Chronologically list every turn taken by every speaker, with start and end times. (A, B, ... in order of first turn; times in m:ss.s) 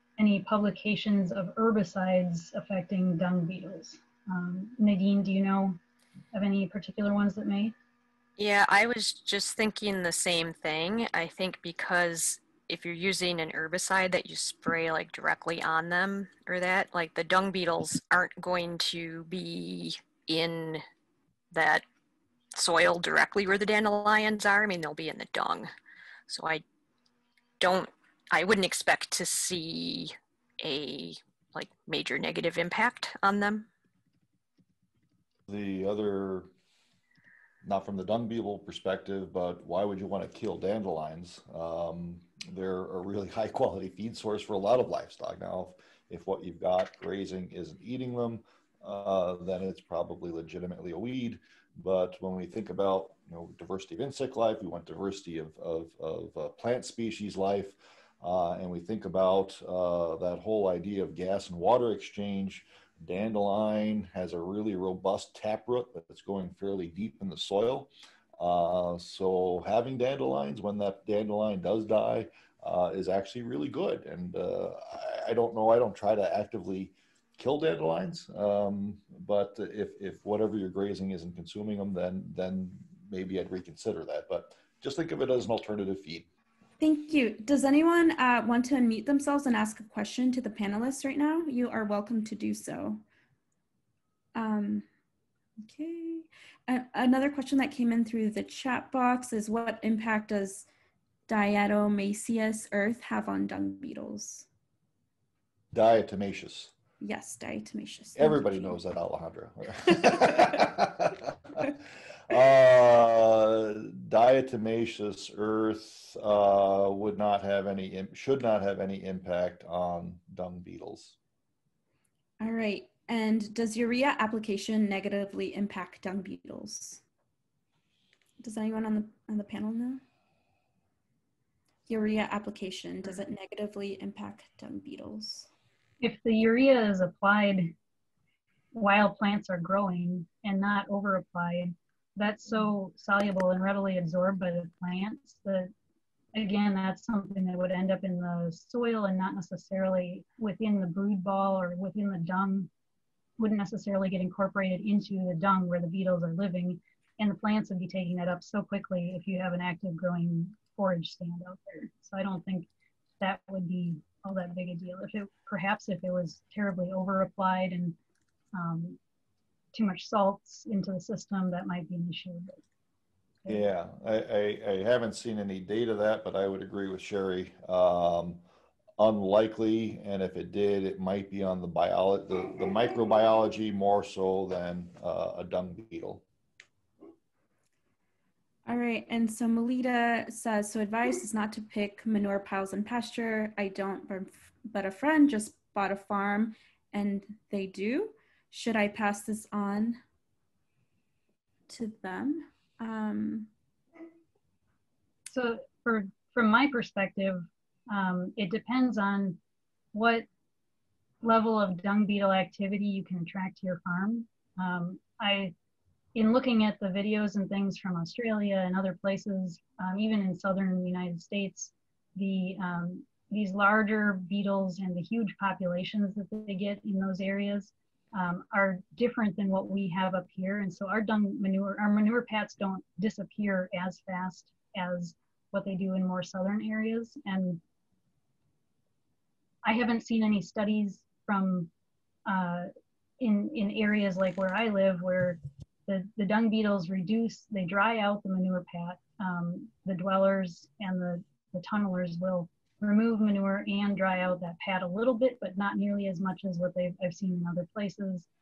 0:00.2-0:05.8 A
0:06.3-0:07.7 A
0:08.4-0:20.8 B
0:21.5-0:21.8 B
0:22.5-0:25.7 B
0:26.3-0:26.6 B
0:27.6-0:33.7 B
0:35.5-0:36.5 C
0:37.6-1:26.2 C
1:26.8-1:33.0 D
1:34.3-1:34.8 D
1:35.6-1:40.6 D
1:41.3-1:44.5 D
1:45.7-1:46.7 C
1:47.0-1:48.8 D
1:48.2-1:51.7 C
1:50.1-1:50.4 D
1:52.3-2:01.2 C
2:02.4-2:07.0 D
2:08.4-2:10.0 D
2:11.9-2:15.5 D
2:16.0-2:17.7 A
2:18.7-2:25.7 A
2:26.3-2:32.7 A
2:33.4-2:42.7 A
2:43.2-2:48.0 A
2:48.5-2:49.0 A
2:49.7-2:52.6 A
2:53.5-2:58.4 C
2:59.0-3:06.2 C
3:08.6-3:20.0 D
3:21.7-3:23.5 D
3:25.3-3:29.4 A
3:29.9-3:30.2 A
3:31.2-3:35.5 A
3:36.1-3:57.6 A
3:59.6-4:01.7 A
4:02.2-4:02.7 A
4:03.2-4:18.3 A